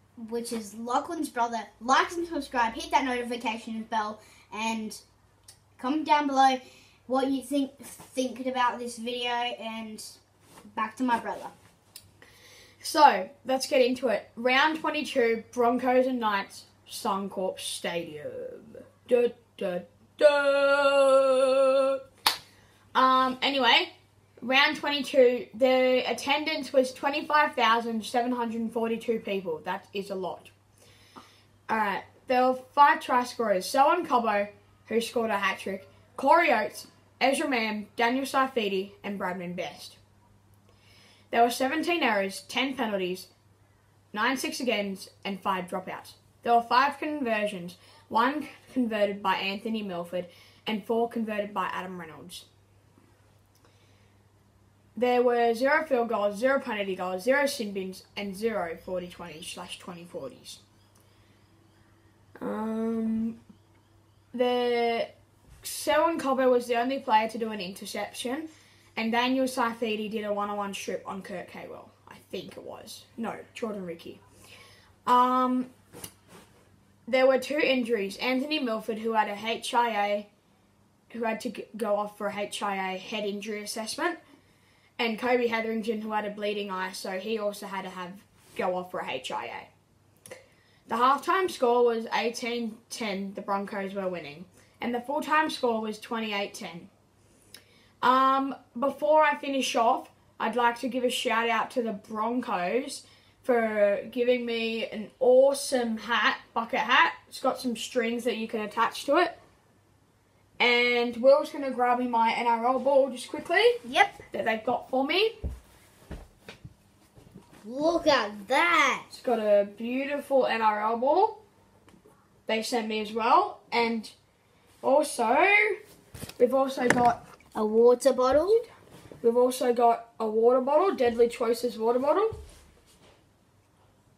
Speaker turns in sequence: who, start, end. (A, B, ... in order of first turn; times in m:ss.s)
0:00.2-0:05.0 A
0:05.8-0:10.2 A
0:10.7-0:11.5 A
0:12.8-0:22.0 B
0:23.0-0:30.5 B
0:31.7-0:40.0 B
0:41.3-0:43.3 B
0:44.1-0:52.4 B
0:55.0-1:00.6 B
1:02.4-1:03.4 B
1:04.3-1:14.2 B
1:15.1-1:15.7 B
1:17.1-1:20.3 B
1:21.1-1:24.2 B
1:25.0-1:29.7 B
1:30.9-1:36.9 B
1:38.0-1:49.4 B
1:50.6-1:53.8 B
1:53.8-1:54.2 A
1:54.3-1:55.3 B
1:57.6-1:59.1 A
1:59.1-2:01.4 B
2:02.5-2:04.1 B
2:04.8-2:05.8 B
2:06.4-2:07.2 B
2:07.6-2:08.7 A
2:09.2-2:12.4 B